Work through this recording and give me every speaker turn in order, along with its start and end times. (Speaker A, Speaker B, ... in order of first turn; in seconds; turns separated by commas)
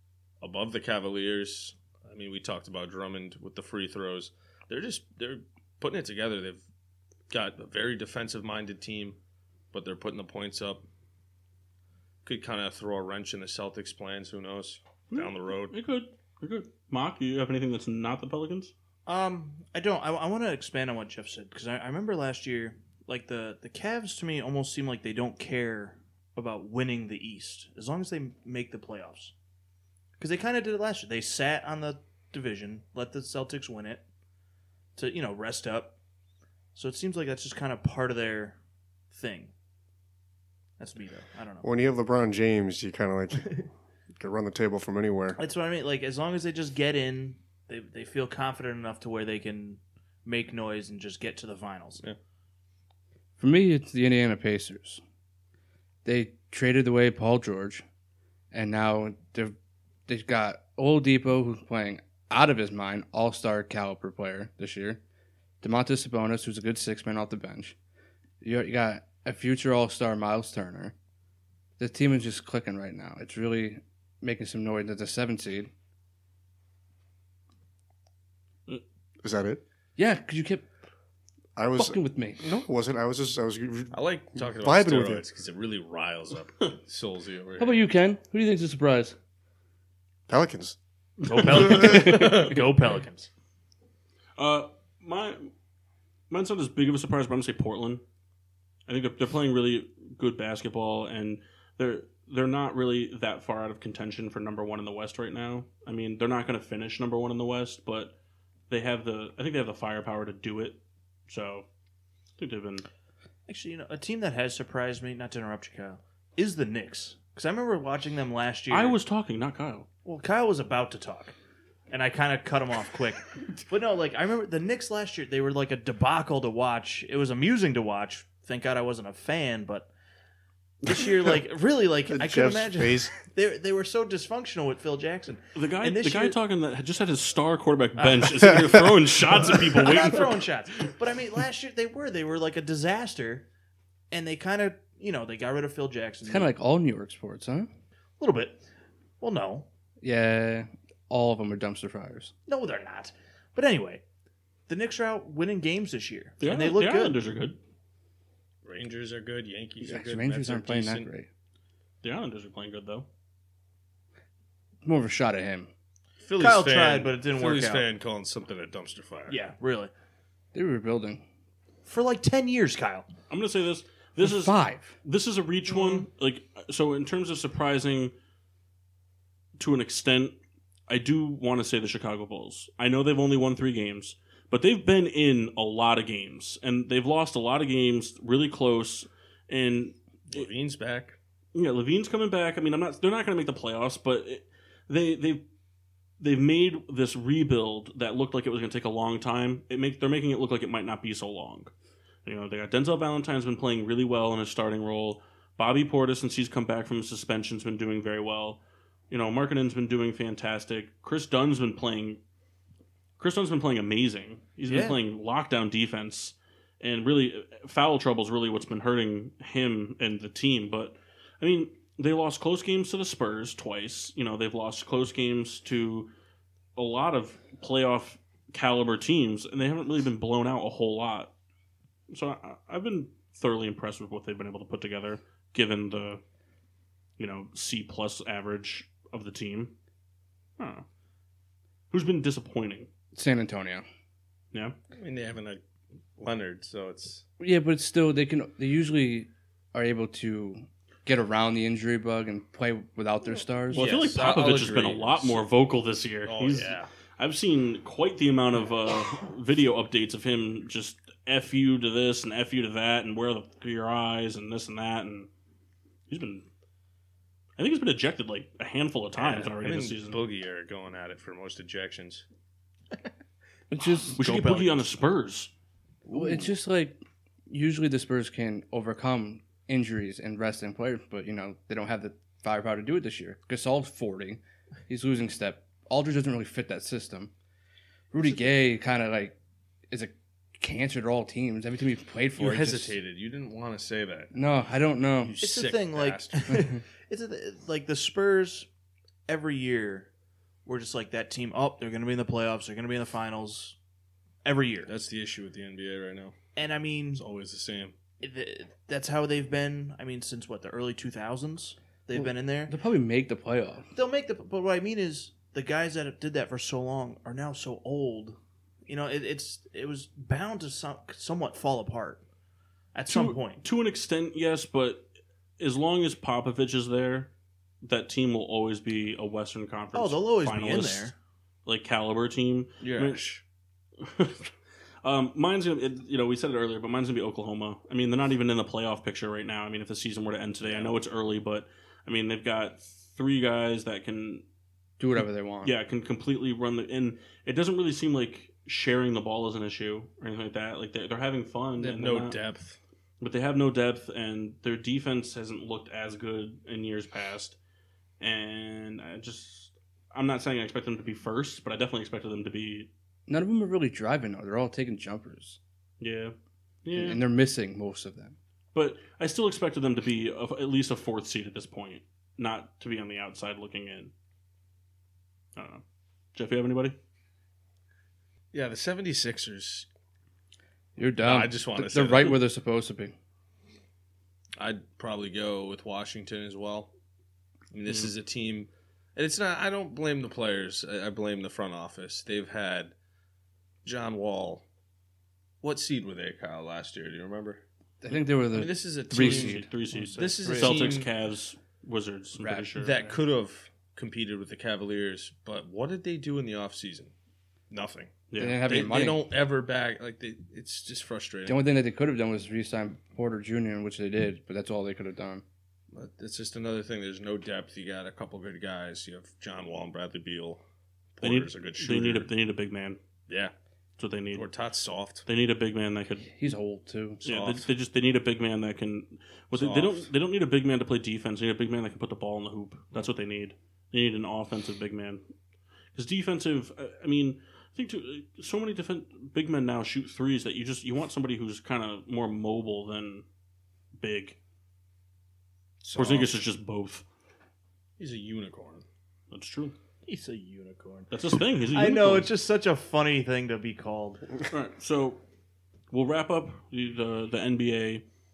Speaker A: 0.4-6.6, Speaker A: 7.3-9.2, Speaker A: 9.7-10.8, Speaker A: 12.2-15.7, Speaker B: 15.1-18.7, Speaker C: 19.1-29.3, Speaker C: 30.2-34.0, Speaker C: 35.0-35.9, Speaker C: 36.7-38.6, Speaker C: 39.1-39.5, Speaker C: 40.8-41.7, Speaker D: 41.6-43.6, Speaker D: 44.2-45.4, Speaker C: 45.4-52.0, Speaker E: 53.4-55.0, Speaker E: 56.0-57.8, Speaker E: 58.5-59.5, Speaker E: 60.1-65.0, Speaker E: 65.6-67.7, Speaker E: 68.4-70.9, Speaker E: 71.8-75.7, Speaker D: 79.2-79.6, Speaker E: 80.0-80.7, Speaker D: 81.5-85.2, Speaker E: 81.7-82.4, Speaker A: 83.9-87.8, Speaker E: 87.6-89.2, Speaker D: 90.3-90.8, Speaker C: 91.2-93.3, Speaker D: 91.6-92.2, Speaker A: 92.0-92.2, Speaker B: 94.4-95.5, Speaker B: 96.3-98.0, Speaker B: 98.9-108.1, Speaker B: 108.7-111.7, Speaker B: 112.4-112.8, Speaker C: 113.5-119.0, Speaker B: 118.7-119.8, Speaker C: 120.0-121.3, Speaker C: 121.9-129.9, Speaker C: 130.8-136.4, Speaker D: 132.1-133.1, Speaker B: 135.5-140.4, Speaker C: 138.0-138.8, Speaker C: 139.3-143.4, Speaker C: 144.1-146.5, Speaker E: 146.2-147.7, Speaker C: 148.2-148.6, Speaker C: 149.2-149.7, Speaker E: 150.0-152.3, Speaker C: 152.5-154.0, Speaker C: 154.7-157.2, Speaker B: 156.4-157.6, Speaker A: 158.6-161.1, Speaker E: 159.8-161.3, Speaker B: 162.0-163.1, Speaker E: 164.8-165.7, Speaker A: 166.2-169.4, Speaker C: 166.4-167.8, Speaker C: 169.3-169.9, Speaker E: 170.5-171.2, Speaker C: 171.8-173.1, Speaker B: 173.3-178.1, Speaker E: 174.2-174.9, Speaker C: 175.7-176.0, Speaker B: 179.6-180.4, Speaker B: 180.9-190.5, Speaker A: 190.3-191.2, Speaker B: 191.5-195.4, Speaker B: 196.2-201.7, Speaker B: 202.2-212.2, Speaker B: 213.2-226.1, Speaker C: 214.7-215.0, Speaker B: 226.8-231.3, Speaker B: 232.1-236.2, Speaker B: 237.2-239.7, Speaker B: 240.6-240.8, Speaker B: 241.9-242.9, Speaker E: 243.1-243.8, Speaker A: 244.9-245.6, Speaker A: 246.2-247.2, Speaker E: 247.4-254.0, Speaker A: 253.7-255.4, Speaker B: 253.7-265.3, Speaker A: 256.2-256.9, Speaker B: 266.1-266.4, Speaker B: 267.6-270.2, Speaker A: 269.2-272.2, Speaker E: 273.7-274.2, Speaker B: 274.1-275.5, Speaker C: 274.2-274.9, Speaker A: 276.1-276.4, Speaker E: 276.1-287.3, Speaker E: 288.1-289.4, Speaker E: 289.9-293.0, Speaker A: 292.4-294.3, Speaker E: 294.3-295.4, Speaker A: 295.2-296.6, Speaker C: 295.4-298.7, Speaker C: 299.3-300.1, Speaker C: 300.6-303.8, Speaker C: 304.4-304.9, Speaker A: 304.9-306.3, Speaker C: 306.6-307.2, Speaker A: 307.1-307.9, Speaker C: 308.2-312.7, Speaker E: 312.1-313.9, Speaker C: 313.9-322.2, Speaker C: 322.9-323.6, Speaker B: 323.1-325.1, Speaker B: 325.6-327.3, Speaker B: 327.8-331.1, Speaker C: 329.9-331.1, Speaker B: 331.6-333.3, Speaker A: 332.8-333.4, Speaker B: 334.0-334.5, Speaker B: 335.0-344.4, Speaker A: 340.7-340.9, Speaker E: 345.0-345.7, Speaker B: 345.6-352.4, Speaker A: 351.8-352.8, Speaker B: 353.2-357.6, Speaker B: 358.2-362.9, Speaker E: 363.3-365.6, Speaker B: 366.0-367.2, Speaker E: 366.9-368.3, Speaker B: 368.7-374.1, Speaker B: 375.6-375.8, Speaker B: 376.3-377.0, Speaker A: 378.5-379.9, Speaker E: 380.9-383.1, Speaker A: 381.2-382.4, Speaker A: 384.6-386.9, Speaker A: 387.7-392.9, Speaker A: 393.8-394.6, Speaker A: 395.6-397.6, Speaker E: 398.0-399.7, Speaker A: 398.5-401.1, Speaker B: 399.1-403.0, Speaker C: 399.9-400.6, Speaker E: 400.4-400.8, Speaker E: 402.4-403.1, Speaker A: 402.8-407.1, Speaker A: 407.7-411.6, Speaker B: 408.3-408.6, Speaker E: 408.4-409.2, Speaker E: 411.4-415.4, Speaker A: 415.9-420.6, Speaker A: 421.1-422.3, Speaker B: 421.2-423.0, Speaker B: 424.0-424.4, Speaker A: 424.3-425.2, Speaker B: 425.2-426.3, Speaker E: 426.2-427.2, Speaker A: 427.2-427.7, Speaker B: 427.2-435.2, Speaker A: 429.5-430.1, Speaker B: 435.9-443.2, Speaker B: 444.0-444.4, Speaker A: 445.8-446.4, Speaker B: 445.9-447.0, Speaker A: 448.0-448.8, Speaker B: 449.3-449.7, Speaker C: 450.1-451.1, Speaker B: 451.1-452.3, Speaker C: 451.7-454.3, Speaker B: 454.5-455.2, Speaker B: 455.9-458.0